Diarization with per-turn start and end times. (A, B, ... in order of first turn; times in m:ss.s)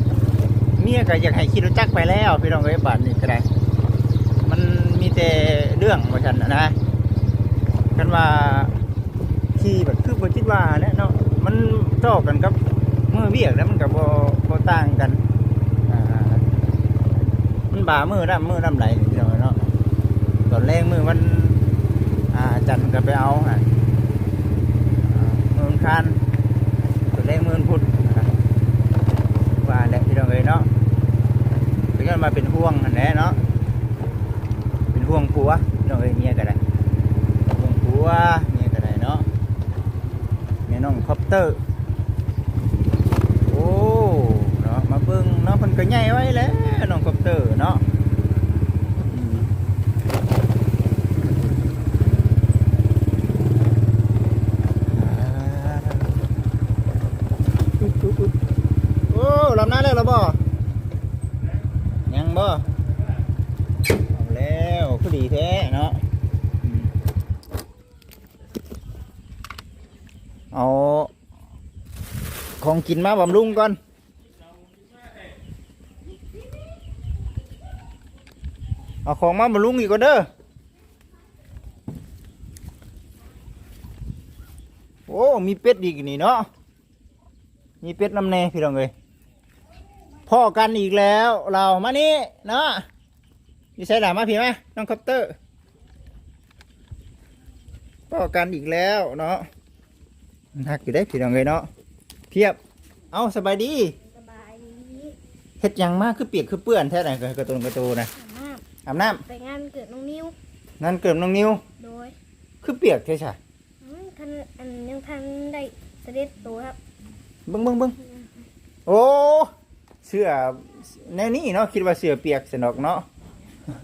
0:00.8-0:03.5 A
0:04.4-0:06.8 A
0:07.9-0:08.7 A
0:09.6-0:12.6 A
0:13.1-0:15.2 A
0:15.9-0:16.5 A
0:17.7-0:19.7 A
0:20.5-0:21.6 A
0:22.3-0:23.7 A
0:25.0-0:26.2 A
0:27.1-0:28.3 A
0:29.6-0:30.7 A
0:32.0-0:33.4 A
0:34.9-0:36.6 A
0:37.5-0:39.3 A
0:40.7-0:41.6 A
0:43.4-0:47.8 A
0:49.0-0:49.5 A
0:54.9-0:56.1 A
0:57.8-0:58.3 A
0:59.1-1:00.4 A
1:02.1-1:02.7 A
1:04.1-1:06.0 A
1:06.6-1:06.9 A
1:10.5-1:11.1 A
1:12.6-1:13.8 A
1:19.0-1:20.3 A
1:25.1-1:26.5 A
1:27.8-1:28.9 A
1:30.3-1:32.9 A
1:33.8-1:35.4 A
1:38.1-1:39.5 A
1:40.6-1:41.7 A
1:42.3-1:42.6 A
1:43.1-1:44.0 A
1:44.0-1:45.2 B
1:45.6-1:48.1 A
1:48.2-1:48.6 B
1:48.8-1:49.2 A
1:49.3-1:50.4 B
1:50.8-1:51.6 A
1:51.8-1:52.2 B
1:52.6-1:53.4 A
1:53.8-1:56.8 B
1:57.5-1:58.0 A
1:58.0-1:58.3 B
1:58.9-1:59.5 A
2:00.0-2:03.1 A